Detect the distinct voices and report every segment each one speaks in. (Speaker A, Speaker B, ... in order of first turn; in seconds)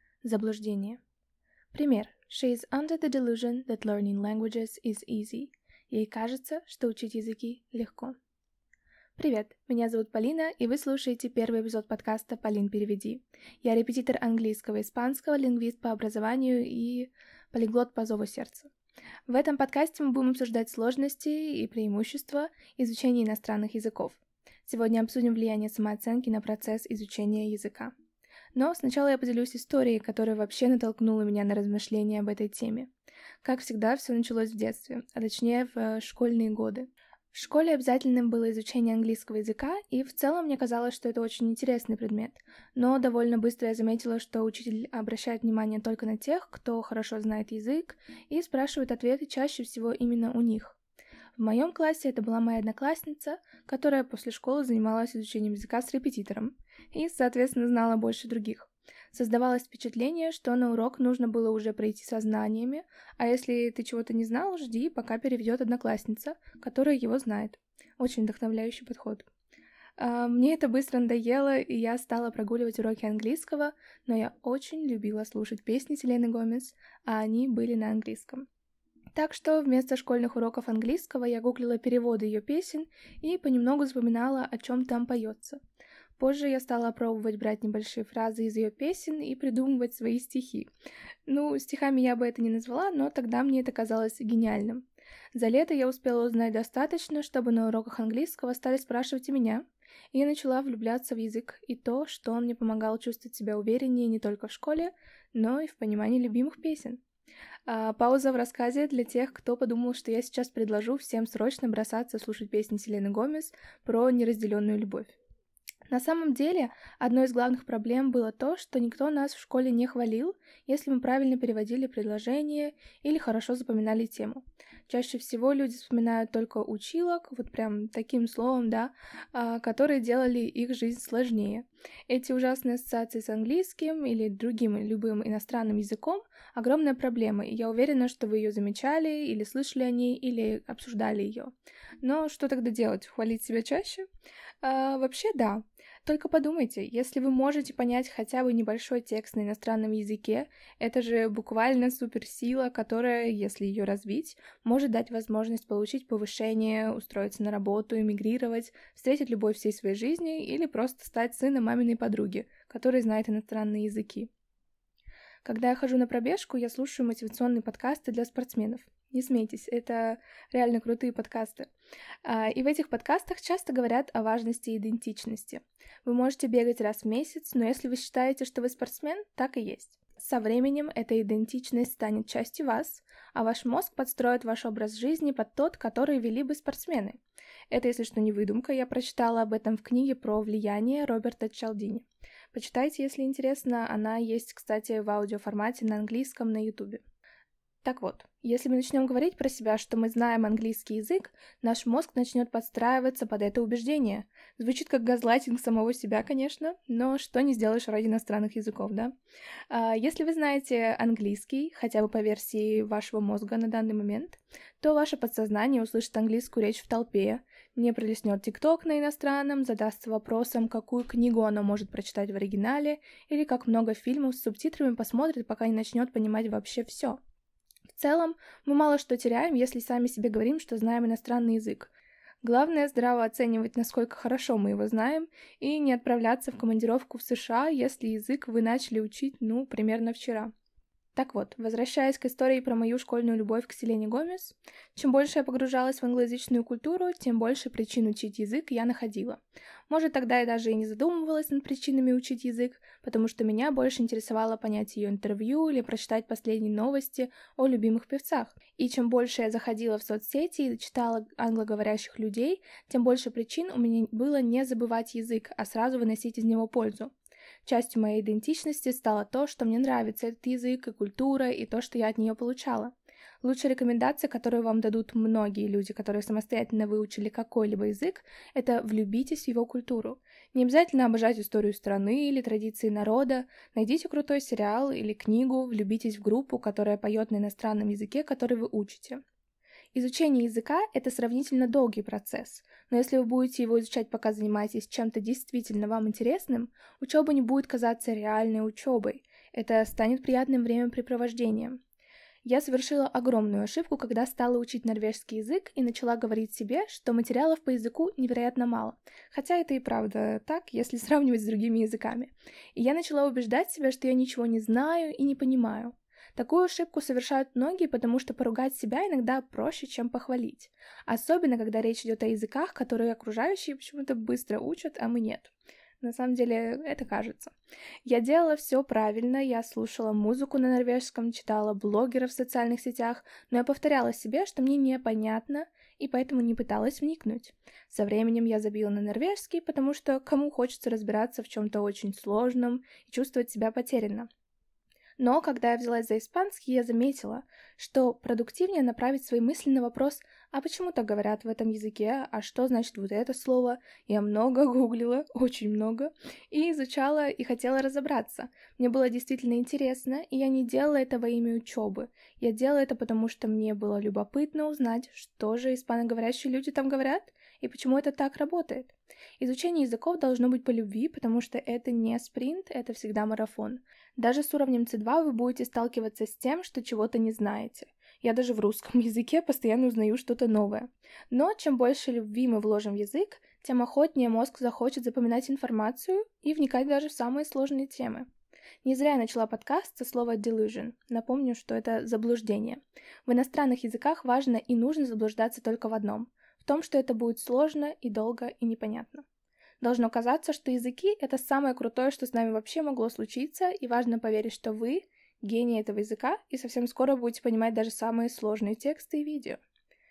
Speaker A: 0.2-1.0, 1.7-8.2, 9.2-18.7, 19.3-27.9, 28.6-32.9, 33.4-50.8, 51.4-69.3, 70.0-78.5, 79.2-85.6, 86.2-90.7, 91.3-107.0, 107.7-115.2, 115.9-144.1, 144.6-164.3, 165.4-171.7, 172.2-197.0, 197.8-209.2, 209.7-227.2, 227.9-240.5, 241.1-267.1, 267.6-289.2, 289.9-301.8, 302.4-327.5, 328.1-344.3, 345.2-388.3, 388.8-399.3, 399.8-409.6